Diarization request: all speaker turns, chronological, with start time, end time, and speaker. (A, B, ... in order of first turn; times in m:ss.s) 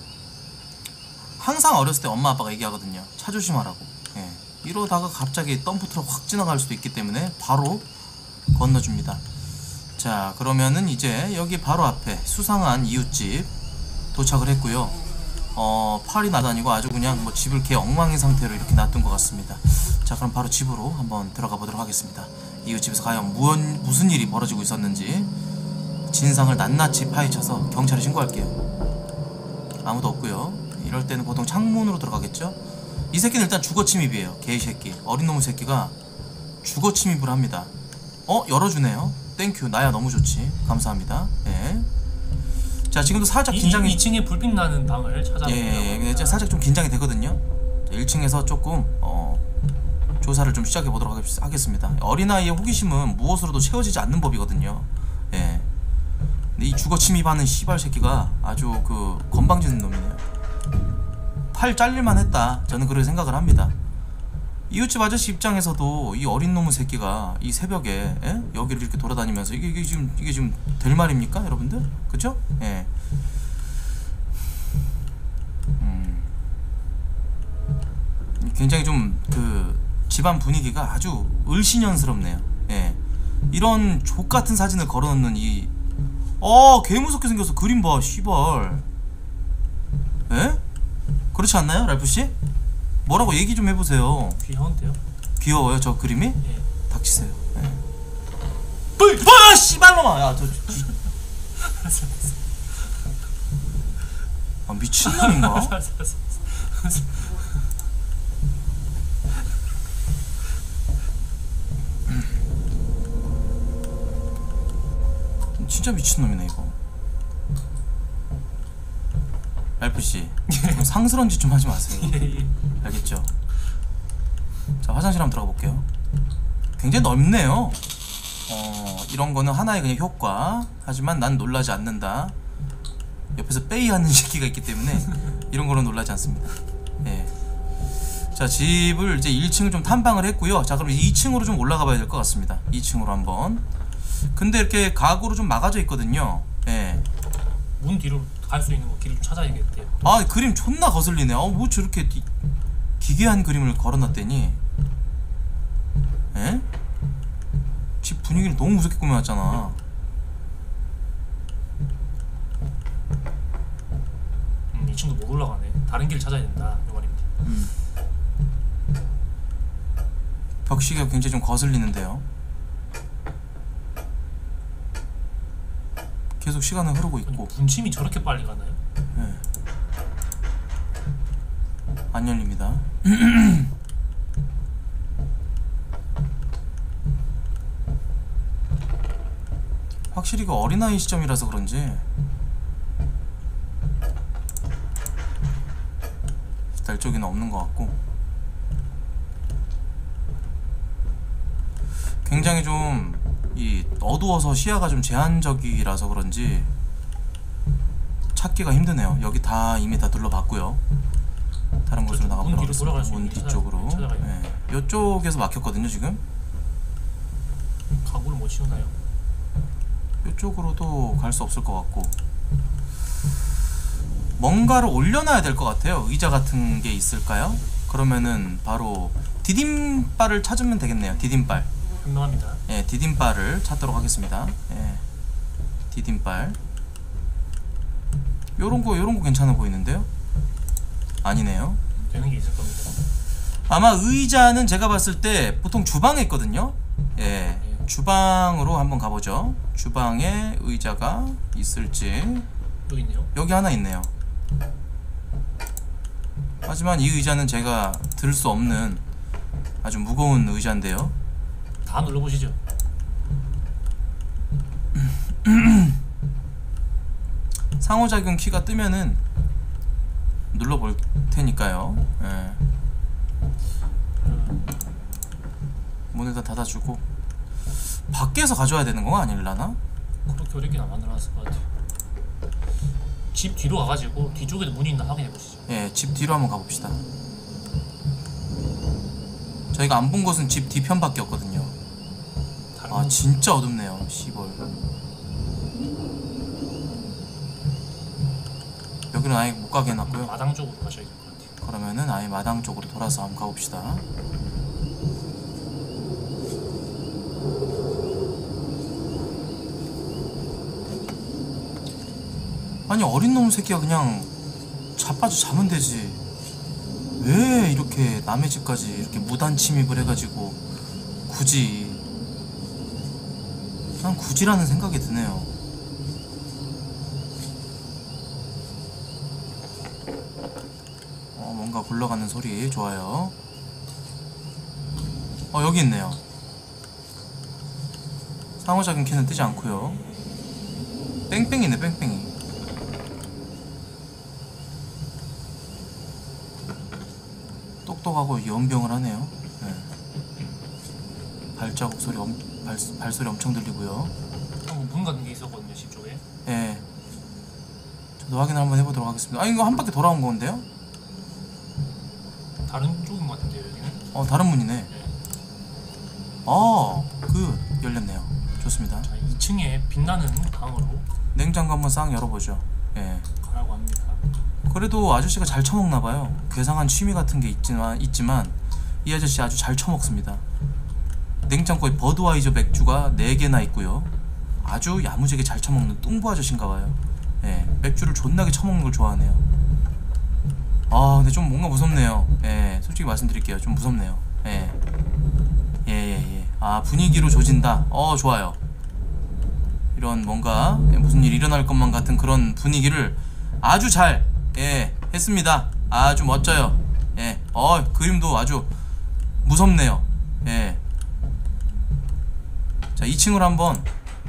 0:01.4-0:07.9 A
0:08.5-0:09.2 A
0:10.0-0:13.5 A
0:14.1-0:15.0 A
0:15.6-0:25.3 A
0:26.1-0:28.6 A
0:29.8-0:32.6 A
0:33.1-0:36.0 A
0:36.6-0:37.7 A
0:38.3-0:41.9 A
0:42.9-0:44.0 A
0:43.5-0:46.4 B
0:45.4-0:49.4 A
0:50.2-0:55.7 A
0:56.6-1:00.2 A
1:01.5-1:03.8 A
1:04.7-1:12.9 A
1:15.8-1:16.3 A
1:18.4-1:23.0 A
1:23.5-1:25.7 A
1:26.4-1:28.8 A
1:30.3-1:30.6 A
1:31.3-1:32.4 A
1:33.0-1:34.4 A
1:34.4-1:35.0 B
1:35.4-1:37.8 A
1:39.0-1:40.9 A
1:41.6-1:42.9 B
1:44.7-1:45.8 A
1:45.0-1:47.6 B
1:55.6-1:56.8 A
1:59.8-2:02.3 A
2:00.5-2:00.9 B
2:01.9-2:02.5 B
2:02.8-2:03.3 A
2:04.8-2:05.9 A
2:06.8-2:07.8 A
2:08.5-2:12.4 A
2:13.4-2:17.3 A
2:18.3-2:23.6 A
2:24.3-2:27.0 A
2:27.8-2:30.0 B
2:30.0-2:32.3 A
2:33.0-2:34.6 A
2:36.3-2:36.7 A
2:38.0-2:39.8 A
2:44.7-2:47.3 B
2:47.4-2:47.7 A
2:50.7-2:52.2 A
2:56.4-2:57.5 A
2:57.3-2:58.8 B
2:59.2-2:59.4 A
3:02.1-3:03.7 A
3:10.1-3:12.0 A
3:16.8-3:18.0 A
3:22.2-3:26.7 A
3:28.3-3:30.8 A
3:31.9-3:36.2 A
3:32.0-3:34.3 B
3:38.0-3:38.9 B
3:40.2-3:42.2 A
3:44.4-3:51.7 A
3:52.0-3:52.6 B
3:52.7-3:55.0 A
3:55.9-3:56.6 A
3:58.6-4:00.1 A
4:01.2-4:01.8 A
4:02.0-4:03.0 B
4:03.7-4:12.5 A
4:12.9-4:13.3 B
4:13.4-4:14.1 A
4:16.6-4:19.0 A
4:19.8-4:21.2 A
4:21.8-4:22.6 B
4:25.0-4:26.0 A
4:27.8-4:29.2 A
4:30.5-4:32.6 A
4:34.2-4:34.8 B
4:36.1-4:37.0 A
4:38.1-4:39.8 A
4:40.3-4:41.6 B
4:43.3-4:45.6 B
4:45.7-4:47.0 A
4:49.7-4:51.8 A
4:52.8-4:53.4 B
4:52.9-4:54.7 A
4:59.1-5:00.4 A
5:00.0-5:01.5 B
5:01.6-5:04.0 A
5:12.9-5:14.3 A
5:15.0-5:16.2 A
5:17.2-5:20.6 A
5:21.3-5:22.0 A
5:24.0-5:25.5 A
5:31.4-5:33.4 A
5:35.5-5:36.2 A
5:38.6-5:40.0 A
5:41.3-5:42.3 A
5:47.8-5:49.9 A
5:51.6-5:54.1 A
5:54.6-5:56.2 B
5:56.5-5:56.9 A
5:58.2-6:00.6 A
6:02.6-6:04.1 B
6:04.1-6:04.9 A
6:06.4-6:09.1 A
6:09.0-6:11.1 B
6:11.3-6:13.3 A
6:13.4-6:14.2 B
6:14.7-6:20.4 A
6:21.5-6:29.4 A
6:30.9-6:34.8 A
6:35.8-6:38.6 A
6:40.0-6:48.7 A
6:49.4-6:50.8 A
6:53.0-6:53.9 A